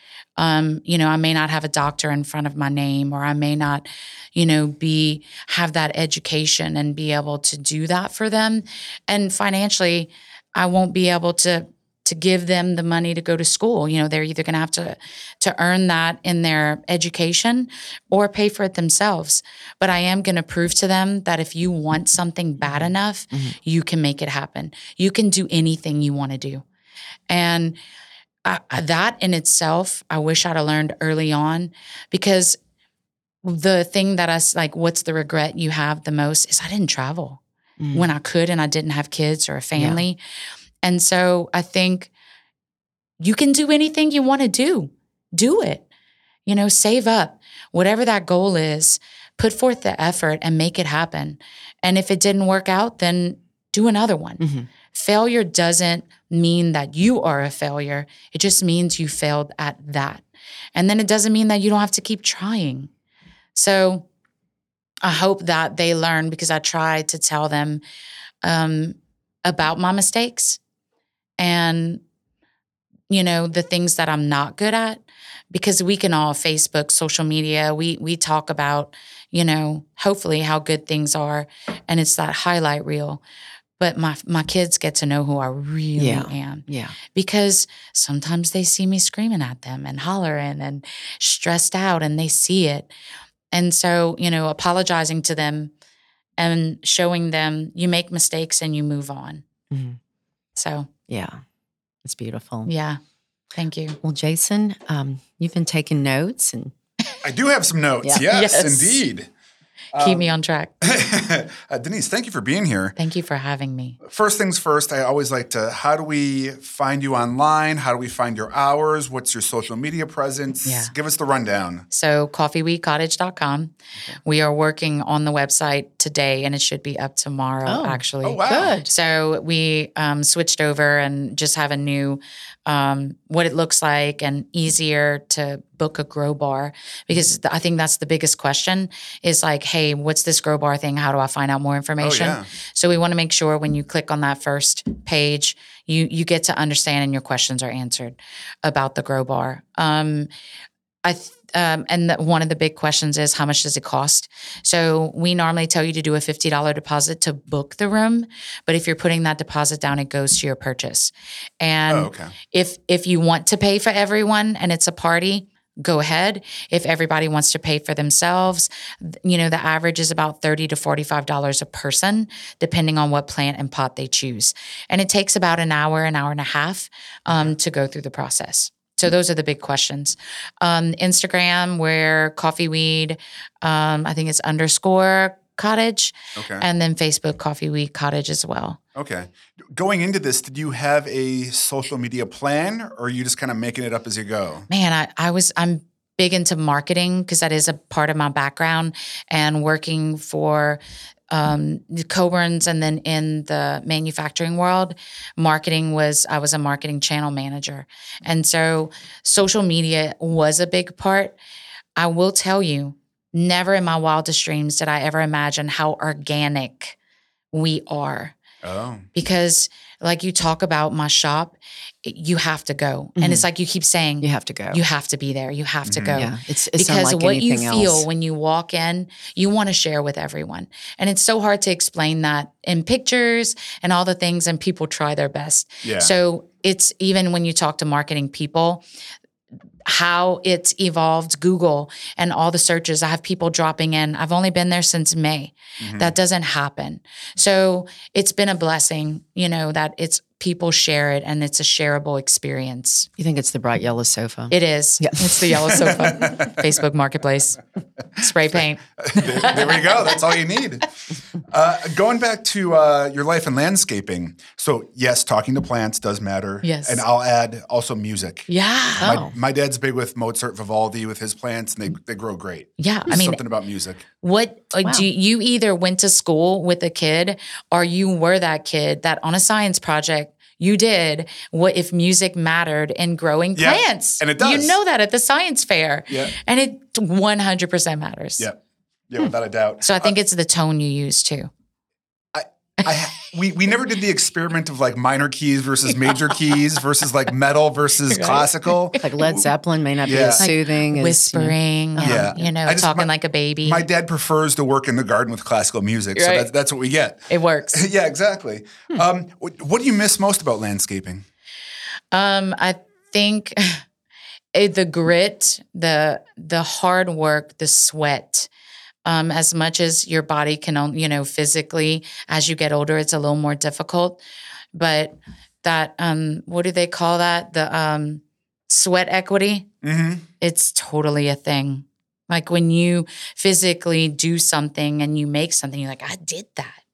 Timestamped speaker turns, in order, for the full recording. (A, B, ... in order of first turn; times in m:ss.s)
0:00.4-0:26.6 A
0:22.7-0:23.6 B
0:27.3-0:27.8 A
0:28.4-0:32.6 A
0:33.4-0:37.4 A
0:37.8-0:38.1 B
0:37.9-0:40.2 A
0:39.8-0:40.0 B
0:40.8-0:42.1 A
0:43.2-0:45.9 A
0:46.5-1:02.9 A
0:54.4-0:54.7 B
1:03.6-1:04.1 A
1:05.0-1:07.8 A
1:08.4-1:10.6 A
1:11.4-1:12.0 A
1:13.1-1:23.2 A
1:23.8-1:32.9 A
1:26.0-1:27.0 B
1:33.5-1:35.7 A
1:36.4-1:39.4 A
1:39.7-1:40.0 B
1:40.6-1:40.9 A
1:41.1-1:41.4 B
1:42.0-1:42.7 B
1:42.7-1:43.0 A
1:43.6-1:44.0 A
1:44.0-1:46.7 B
1:47.2-1:49.3 C
1:48.2-1:49.0 A
1:49.9-1:50.3 C
1:50.0-1:50.9 A
1:50.8-1:53.0 C
1:53.0-1:54.0 A
1:54.0-2:01.8 C
2:00.6-2:00.9 A
2:01.9-2:03.7 A
2:04.2-2:30.3 A
2:07.7-2:08.9 B
2:08.2-2:08.8 C
2:22.0-2:22.5 C
2:31.0-3:08.8 A
2:41.9-2:42.3 C
3:06.4-3:06.6 C
3:09.0-3:14.7 C
3:14.7-3:31.4 A
3:32.0-3:37.0 A
3:37.5-3:38.4 A
3:38.6-3:39.1 C
3:39.1-3:58.8 A
3:43.2-3:43.4 B
3:44.2-3:44.8 B
3:45.9-3:46.2 C
3:46.1-3:48.1 B
3:55.8-3:56.1 C
3:59.9-4:13.1 A
4:05.8-4:06.1 C
4:13.2-4:15.8 B
4:14.5-4:17.6 A
4:15.8-4:16.6 C
4:18.2-4:20.1 A
4:19.0-4:20.9 C
4:21.5-4:34.0 C
4:26.6-4:27.0 A
4:28.5-4:29.2 A
4:29.0-4:29.3 B
4:32.8-4:33.4 A
4:34.2-4:48.5 A
4:43.6-4:44.8 C
4:46.1-4:46.3 C
4:49.1-4:50.1 C
4:49.8-4:51.5 A
4:52.3-4:59.4 C
4:58.1-4:59.0 A
4:59.0-5:02.5 B
5:00.0-5:00.4 C
5:00.4-5:03.8 A
5:02.0-5:03.1 C
5:03.6-5:11.2 C
5:06.2-5:06.5 A
5:07.3-5:07.8 A
5:12.1-5:13.8 A
5:14.5-5:18.5 A
5:19.0-5:24.2 A
5:24.8-5:29.7 A
5:29.8-5:30.3 C
5:30.4-5:36.8 A